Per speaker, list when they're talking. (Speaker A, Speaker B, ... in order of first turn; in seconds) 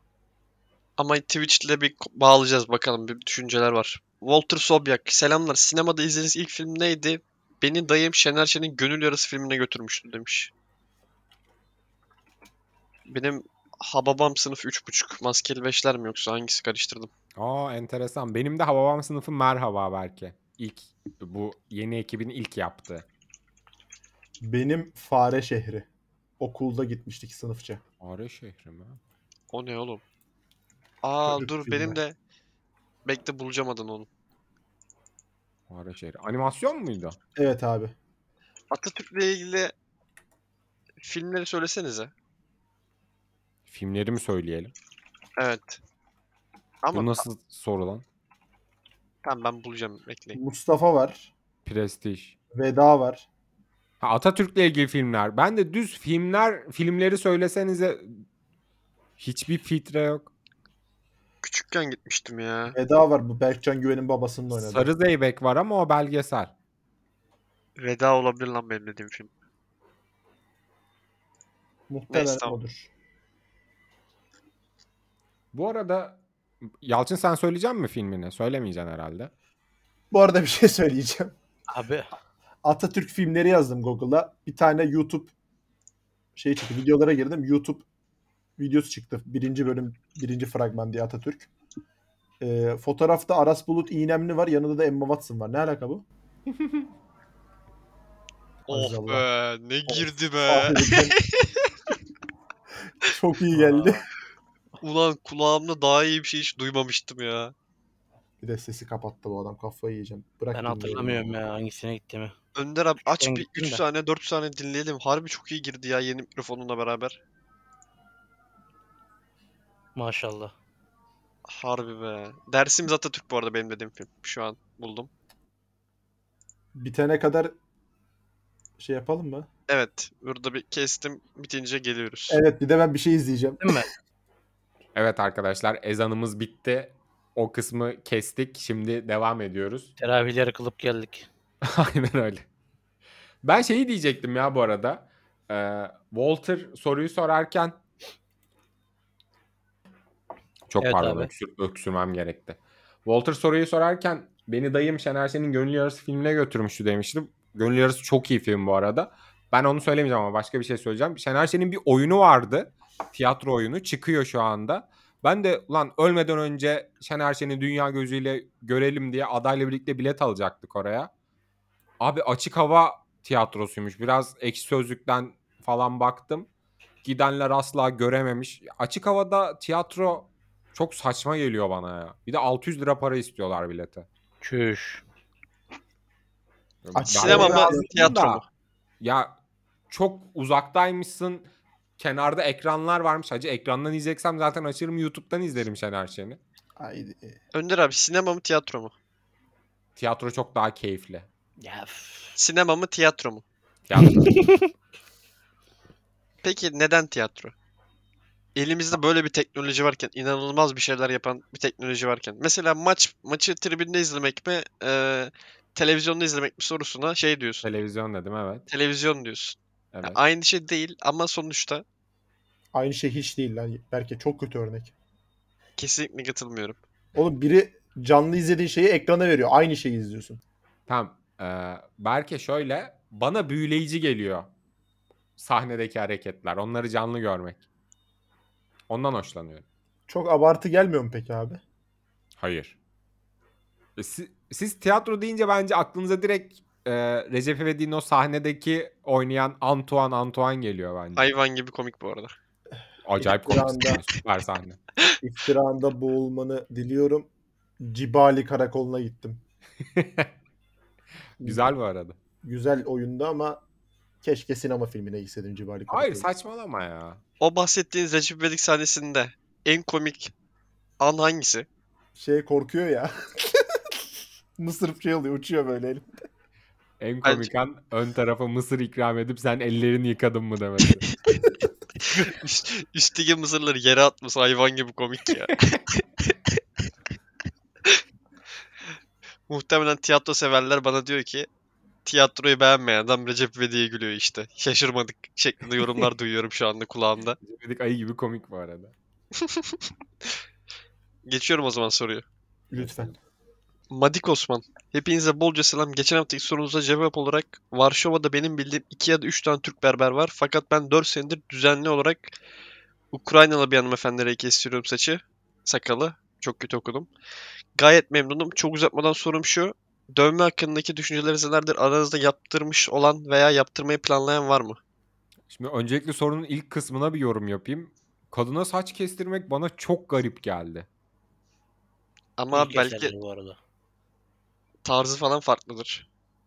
Speaker A: 1.0-10.5, 13.1-17.1, 29.5-30.0, 31.0-32.1, 33.0-34.1, 38.7-39.7, 41.0-42.1, 45.4-45.8, 46.8-47.2, 49.2-50.4, 61.4-62.8, 67.8-69.3, 72.1-72.5, 98.7-101.5, 104.8-107.5, 112.5-117.2, 121.5-125.1, 129.7-132.4, 187.1-188.4, 197.5-198.9, 202.4-203.4, 206.4-207.5, 208.6-217.7, 218.7-221.8, 225.8-226.8, 251.2-252.3, 267.4-270.3, 271.0-271.7, 277.2-277.5, 282.2-286.4, 289.5-291.5, 292.1-297.4, 299.4-299.8, 301.3-302.2, 303.9-312.3, 313.1-317.1, 317.8-324.8, 332.4-333.1, 334.8-336.1
Speaker B: 17.4-23.1, 28.0-29.0, 35.7-37.2, 43.7-44.7, 46.9-48.0, 51.6-52.4, 54.0-58.2, 59.2-60.3, 64.5-66.5, 75.5-76.2, 76.8-79.3, 134.9-139.9, 141.6-142.4, 143.4-147.8, 150.7-171.1, 172.0-176.5, 177.0-184.1, 186.8-188.4, 189.0-189.3, 189.9-196.4, 200.0-201.3, 203.9-204.4, 217.6-218.7, 219.9-220.2, 230.9-234.5, 235.4-237.7, 238.9-239.7, 242.4-242.8, 244.0-251.2, 253.1-254.8, 259.8-260.3, 261.4-262.2, 265.9-267.2, 277.0-281.2, 297.4-298.9, 325.5-330.9
Speaker C: 24.4-25.9, 26.4-27.8, 31.2-32.0, 37.4-37.9, 50.3-51.3, 52.5-53.3, 62.7-64.9, 71.9-72.9, 80.1-81.4, 82.6-85.3, 86.4-87.9, 88.6-91.5, 92.4-96.0, 98.7-99.3, 99.9-101.2, 103.0-104.0, 108.4-111.4, 126.8-127.5, 128.8-129.5, 132.3-133.8, 186.9-188.1, 196.8-197.4, 222.7-224.9, 227.2-230.4, 240.1-241.6, 252.7-254.0, 255.2-259.4, 261.4-261.7, 262.4-263.6, 264.2-266.3, 272.1-273.9, 274.6-276.1, 302.7-303.2
Speaker D: 81.7-82.1, 103.5-104.0, 110.5-112.3, 113.0-113.8, 120.0-120.5, 133.6-133.9, 140.0-141.3, 150.8-151.3, 184.4-185.0, 201.6-202.4, 204.0-204.7, 332.5-333.6